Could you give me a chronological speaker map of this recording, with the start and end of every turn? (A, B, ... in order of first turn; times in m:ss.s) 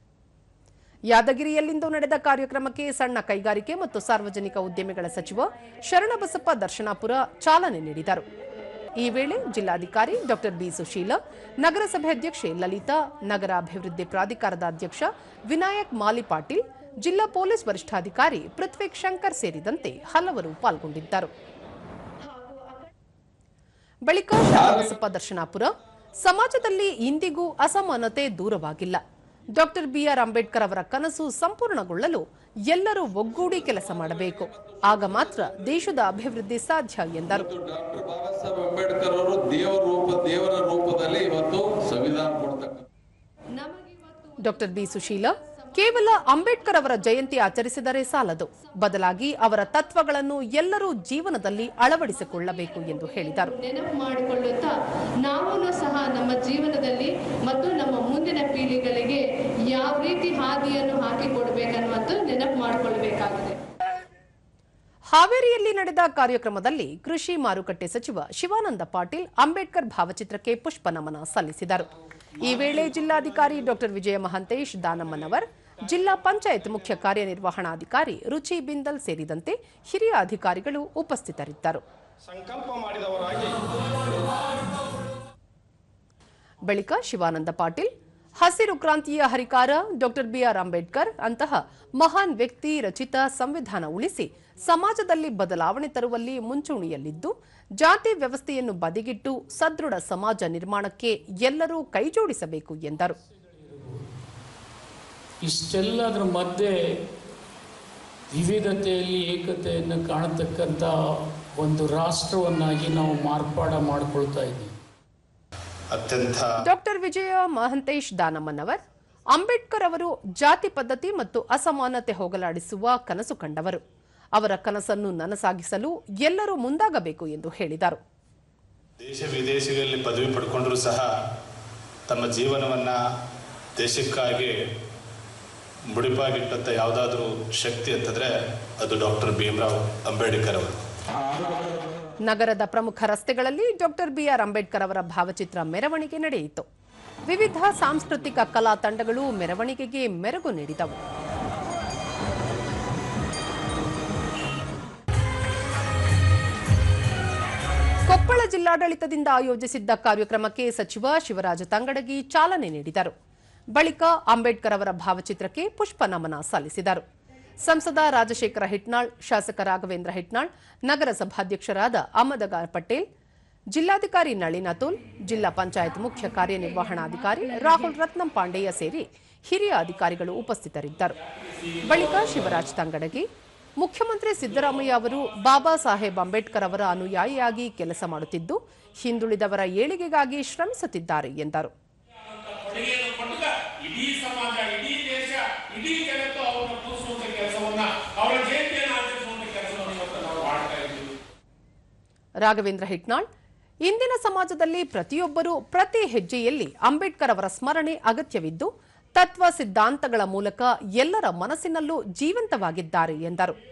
0:01.1-0:08.2 A
0:09.0-0:21.3 A
0:24.1-0:29.0 A
0:29.5-0:37.5 A
0:34.0-0:35.3 B
0:37.4-0:42.8 B
0:43.6-0:46.2 C
0:44.4-0:53.5 A
0:53.5-0:54.7 C
0:55.2-1:03.6 C
1:05.1-1:11.9 A
1:12.4-1:21.8 A
1:22.3-1:23.7 B
1:26.6-1:43.2 A
1:43.2-1:44.1 D
1:45.4-1:46.8 D
1:48.3-1:54.7 D
1:55.9-1:56.5 E
1:56.6-1:58.8 A
1:59.3-2:03.8 A
2:04.3-2:08.0 A
2:09.0-2:11.1 E
2:12.1-2:13.0 E
2:13.8-2:14.6 E
2:15.9-2:20.8 E
2:22.2-2:26.6 A
2:27.2-2:31.0 A
2:38.1-2:43.1 A
2:43.7-2:47.0 A
2:47.6-2:53.0 A
2:53.7-3:01.2 A
3:01.8-3:03.2 A
3:03.8-3:11.7 A
3:12.2-3:21.1 F
3:22.4-3:23.2 A
3:23.8-3:33.6 A